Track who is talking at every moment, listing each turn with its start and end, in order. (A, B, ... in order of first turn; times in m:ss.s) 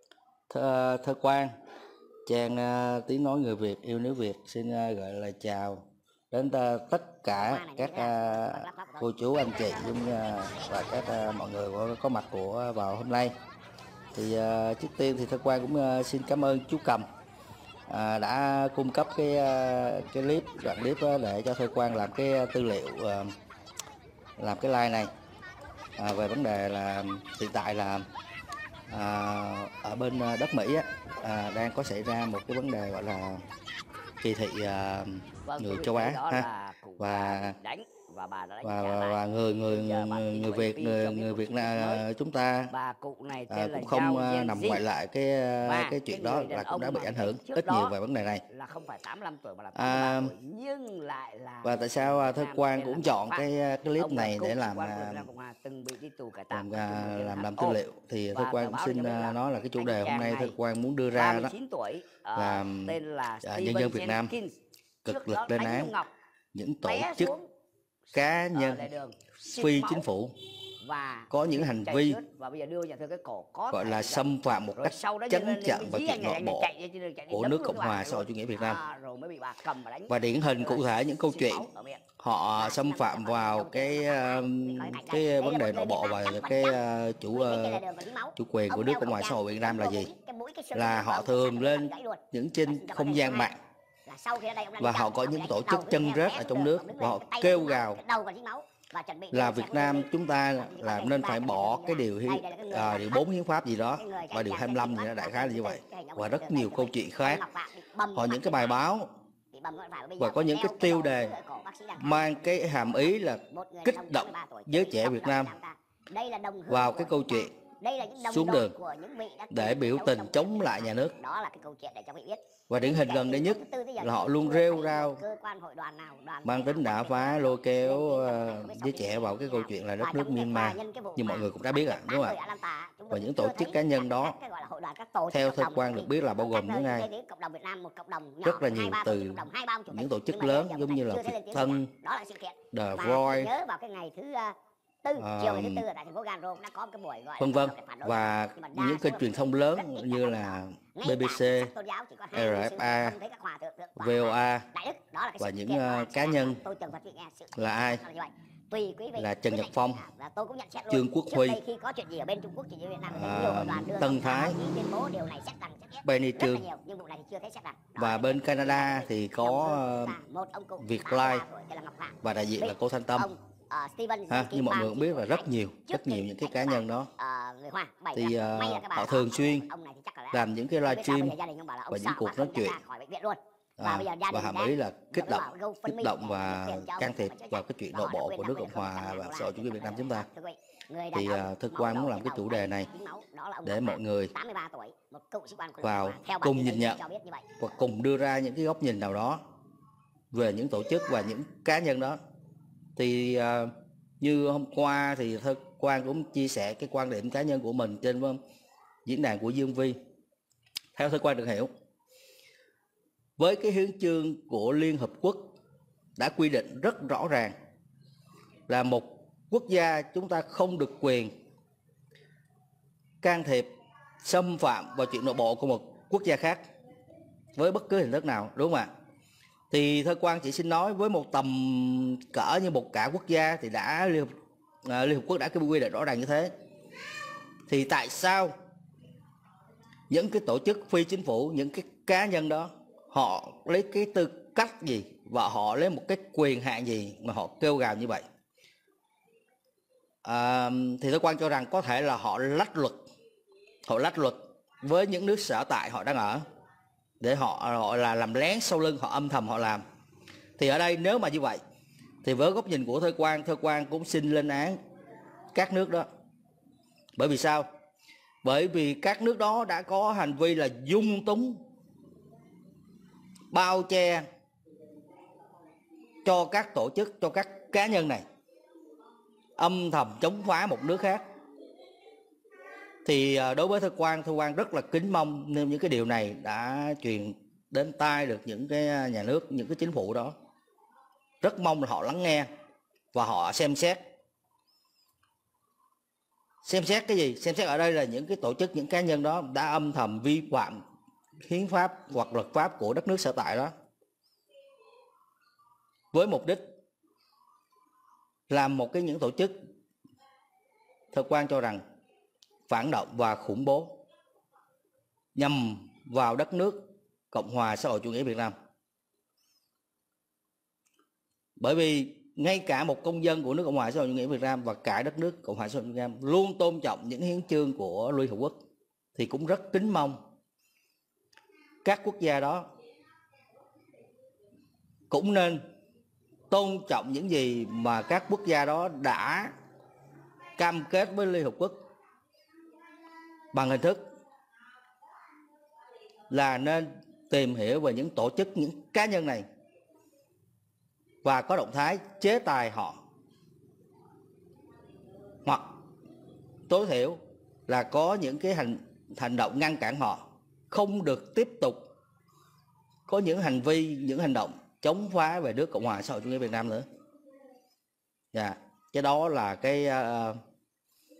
0:00.5-0:01.5 A
0:02.2-0:13.3 A
0:07.3-0:10.8 B
0:14.1-0:17.0 A
0:17.9-0:23.3 A
0:24.4-0:25.1 A
0:26.0-0:28.1 A
0:28.9-0:33.4 A
0:34.2-0:36.5 A
0:35.4-0:42.0 C
0:37.0-0:37.6 A
0:38.6-0:42.7 A
0:42.7-0:44.8 C
0:43.5-0:48.4 A
0:45.6-0:47.9 C
0:48.5-0:53.5 C
0:49.7-0:50.3 A
0:51.6-0:55.3 A
0:54.0-0:57.8 C
0:56.5-1:01.5 A
0:58.3-1:00.6 C
1:01.1-1:04.5 C
1:02.4-1:04.3 A
1:05.0-1:05.9 A
1:05.0-1:06.1 C
1:06.5-1:07.3 A
1:06.8-1:07.5 C
1:08.1-1:08.9 A
1:08.5-1:10.0 C
1:09.4-1:10.3 A
1:10.8-1:22.0 C
1:11.3-1:12.2 A
1:13.7-1:16.7 A
1:17.3-1:18.8 A
1:20.1-1:21.7 A
1:22.2-1:27.8 A
1:22.6-1:26.8 B
1:27.3-1:33.5 B
1:28.4-1:30.1 A
1:30.7-1:33.6 A
1:34.0-1:43.2 B
1:34.8-1:38.0 A
1:39.3-1:47.4 A
1:43.9-1:48.8 B
1:48.1-1:49.1 A
1:49.5-1:52.9 B
1:50.2-1:51.3 A
1:52.0-1:55.5 A
1:53.5-3:17.5 B
1:56.7-1:57.6 A
1:58.2-1:58.7 A
1:59.5-2:01.1 A
2:02.7-2:05.2 A
2:06.4-2:12.4 A
2:13.1-2:14.4 A
2:15.3-2:17.1 A
2:18.4-2:21.9 A
2:22.7-2:23.5 A
2:25.2-2:25.8 A
2:27.4-2:31.7 A
2:32.3-2:33.2 A
2:34.0-2:34.7 A
2:35.4-2:36.6 A
2:37.6-2:38.0 A
2:39.1-2:40.0 A
2:40.9-2:41.6 A
2:43.1-2:44.6 A
2:46.0-2:46.6 A
2:48.0-2:50.2 A
2:50.8-2:51.4 A
2:52.2-2:53.3 A
2:54.3-2:57.1 A
2:58.1-2:59.7 A
3:00.3-3:01.4 A
3:01.9-3:02.8 A
3:03.8-3:10.2 A
3:11.1-3:12.9 A
3:13.6-3:14.3 A
3:15.8-3:17.0 A
3:17.6-3:19.4 A
3:20.3-3:22.2 A
3:23.0-3:28.4 A
3:29.0-3:30.0 A
3:31.0-3:31.7 A
3:33.4-3:35.5 A
3:36.2-3:37.5 A
3:38.7-3:41.3 A
3:43.2-3:43.7 A
3:44.2-3:46.6 A
3:47.6-3:48.9 A
3:49.7-3:54.3 A
3:54.8-3:56.5 A
3:57.7-3:58.5 A
4:00.1-4:08.2 A
4:10.2-4:13.0 A
4:13.9-4:16.4 A
4:17.2-4:19.8 A
4:20.6-4:21.6 A
4:22.2-4:24.8 A
4:25.5-4:26.1 A
4:27.2-4:27.7 A
4:28.4-4:31.6 A
4:33.5-4:34.2 A
4:36.2-4:38.2 A
4:39.6-4:41.2 A
4:43.0-4:50.3 A
4:51.4-4:52.5 A
4:53.1-4:54.0 A
4:56.6-5:00.8 A
5:01.4-5:03.7 A
5:06.1-5:06.6 A
5:08.5-5:09.6 A
5:11.1-5:11.8 A
5:12.7-5:14.0 A
5:15.4-5:18.5 A
5:21.6-5:28.6 A
5:29.2-5:30.2 A
5:31.8-5:32.7 A
5:35.1-5:35.6 A
5:36.5-5:39.5 A
5:40.6-5:41.8 A
5:43.5-5:44.0 A
5:46.3-5:49.4 A
5:51.2-5:53.0 A
5:55.4-5:55.7 A
5:56.7-6:01.9 A
6:03.1-6:06.9 A
6:08.3-6:10.4 A